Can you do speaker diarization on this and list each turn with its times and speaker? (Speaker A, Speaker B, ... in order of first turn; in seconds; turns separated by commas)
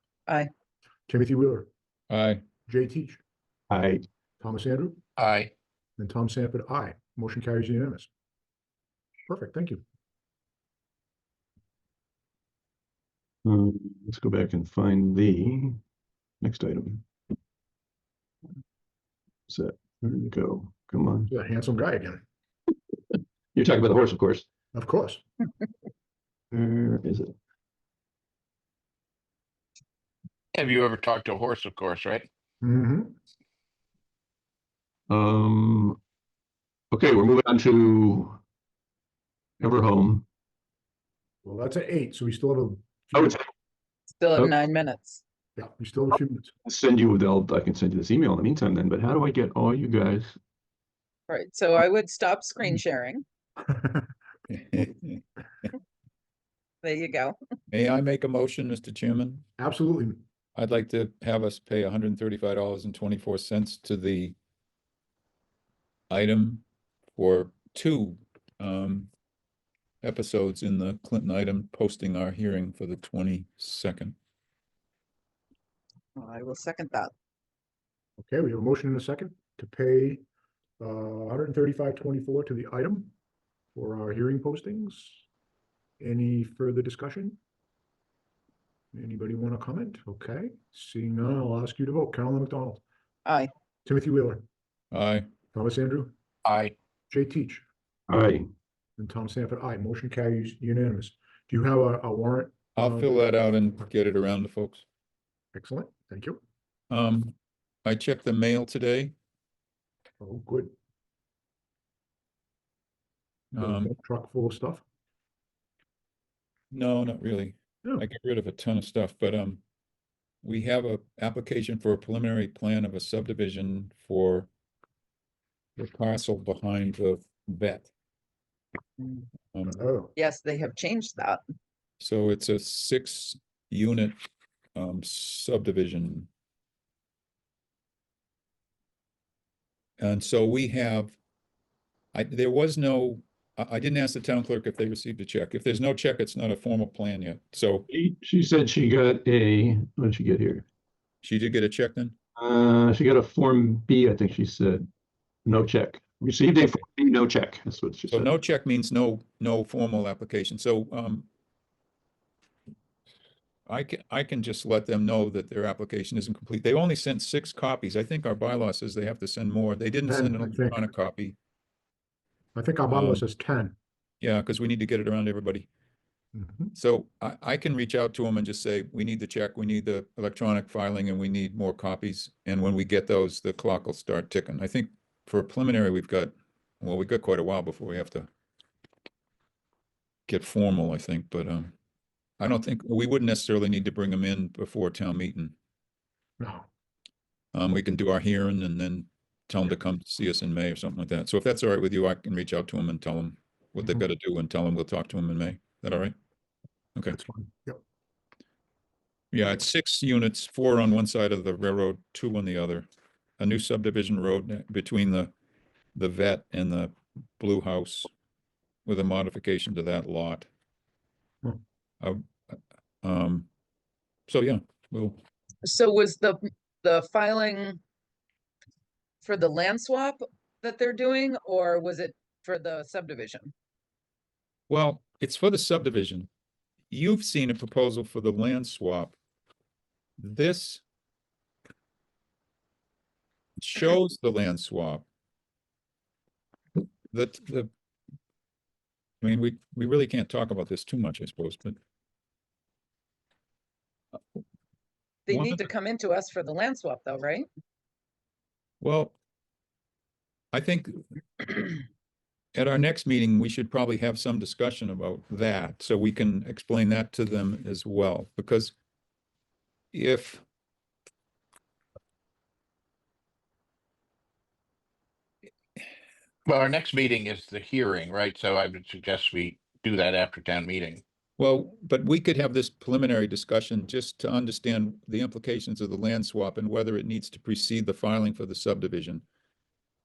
Speaker A: 1.1-1.7, Speaker B: 2.1-2.4, Speaker A: 2.7-3.2, Speaker C: 3.7-4.0, Speaker A: 4.4-5.0, Speaker D: 5.2-5.5, Speaker A: 6.0-8.1, Speaker A: 9.3-9.8, Speaker C: 13.4-15.8, Speaker C: 16.4-17.0, Speaker C: 19.5-21.3, Speaker A: 21.3-22.2, Speaker C: 23.5-24.4, Speaker A: 24.7-25.2, Speaker C: 26.5-27.3, Speaker D: 30.5-32.3, Speaker A: 32.6-33.1, Speaker C: 35.1-36.0, Speaker C: 36.9-38.4, Speaker C: 39.6-40.2, Speaker A: 41.4-43.4, Speaker C: 43.1-43.4, Speaker E: 44.2-45.2, Speaker A: 45.5-46.5, Speaker C: 46.6-50.3, Speaker E: 51.3-53.2, Speaker A: 53.7-54.1, Speaker B: 54.5-55.2, Speaker E: 56.8-57.4, Speaker B: 57.7-59.5, Speaker A: 59.6-60.2, Speaker B: 60.5-64.3, Speaker B: 66.1-66.6, Speaker B: 67.2-69.1, Speaker B: 70.0-74.1, Speaker E: 76.2-77.1, Speaker A: 78.2-80.2, Speaker A: 80.8-83.1, Speaker A: 83.7-85.2, Speaker A: 86.0-87.4, Speaker A: 88.9-92.8, Speaker A: 93.8-94.4, Speaker B: 94.9-95.3, Speaker A: 95.5-96.1, Speaker D: 96.4-96.7, Speaker A: 97.1-97.6, Speaker C: 98.1-98.5, Speaker A: 99.0-103.3, Speaker B: 102.8-104.8, Speaker A: 105.5-106.4, Speaker B: 106.9-109.1, Speaker A: 110.2-110.7, Speaker B: 113.5-113.9, Speaker A: 113.6-114.8, Speaker B: 116.7-119.6, Speaker B: 120.4-124.5, Speaker B: 125.8-127.9, Speaker B: 129.5-129.8, Speaker A: 129.7-130.1, Speaker E: 130.2-131.4, Speaker B: 132.0-134.2, Speaker B: 134.8-136.3, Speaker B: 140.0-141.2, Speaker B: 142.1-147.8, Speaker C: 147.9-150.6, Speaker B: 151.2-152.1, Speaker C: 152.4-154.9, Speaker C: 155.4-158.3, Speaker B: 158.1-161.3, Speaker B: 163.7-171.3, Speaker A: 170.1-170.8, Speaker A: 172.5-173.7, Speaker B: 172.9-173.2, Speaker B: 174.2-175.7, Speaker A: 176.3-176.7, Speaker B: 176.7-188.3, Speaker B: 190.3-191.7, Speaker B: 192.4-195.5, Speaker A: 196.4-196.7, Speaker B: 197.5-206.1, Speaker A: 207.1-207.8, Speaker B: 209.3-212.8, Speaker B: 213.4-215.3, Speaker B: 215.9-218.1, Speaker B: 218.8-220.5, Speaker B: 222.0-223.5, Speaker B: 224.3-225.2, Speaker E: 225.6-227.8, Speaker E: 229.2-233.5, Speaker B: 234.7-236.3, Speaker B: 236.9-239.2, Speaker B: 240.2-240.8, Speaker B: 243.6-245.0, Speaker B: 247.1-247.7, Speaker B: 249.2-251.8, Speaker E: 255.3-257.5, Speaker B: 255.3-255.6, Speaker B: 258.8-259.1, Speaker B: 260.5-261.6, Speaker B: 262.5-268.7, Speaker B: 269.9-270.4, Speaker D: 276.5-281.0, Speaker B: 281.4-289.2